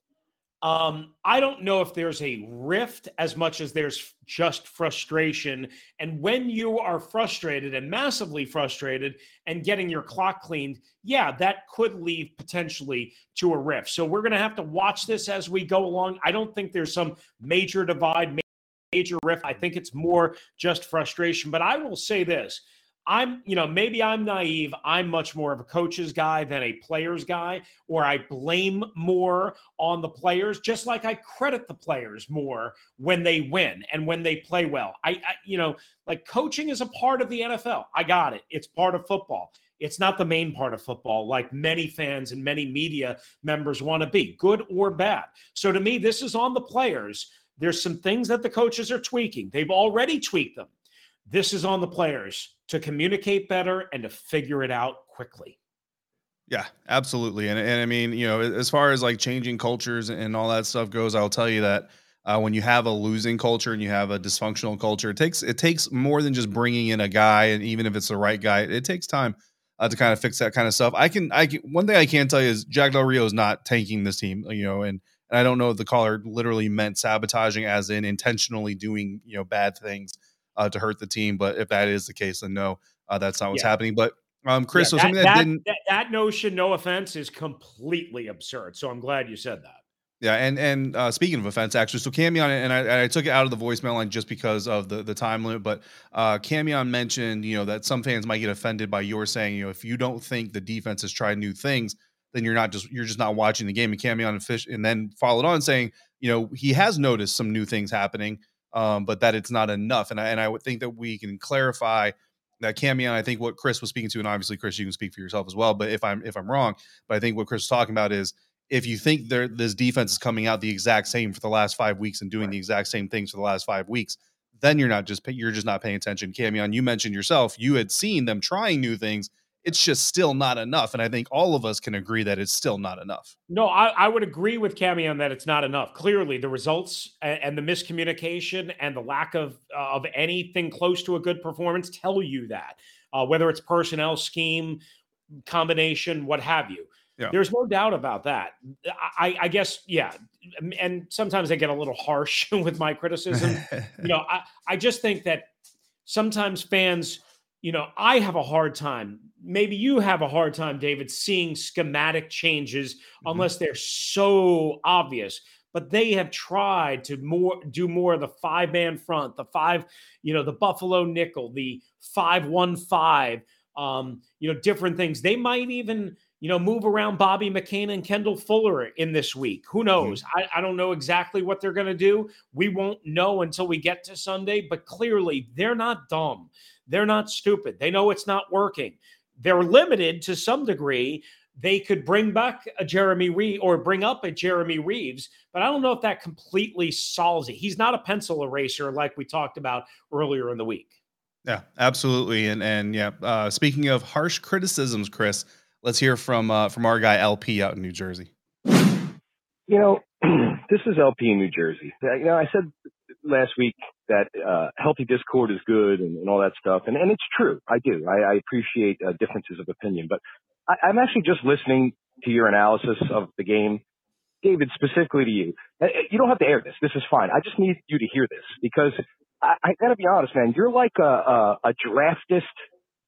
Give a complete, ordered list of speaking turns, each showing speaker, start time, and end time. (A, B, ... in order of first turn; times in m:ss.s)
0:00.6-0:50.7 A
0:51.3-0:55.6 A
0:56.5-1:25.6 B
1:24.7-1:29.8 A
1:30.2-2:13.3 B
2:13.5-2:24.8 A
2:25.5-2:35.5 A
2:33.4-2:34.1 B
2:36.0-3:20.9 A
2:43.2-2:43.5 B
3:21.4-3:28.3 B
3:29.7-3:32.7 C
3:33.2-3:43.8 C
3:44.4-3:52.5 C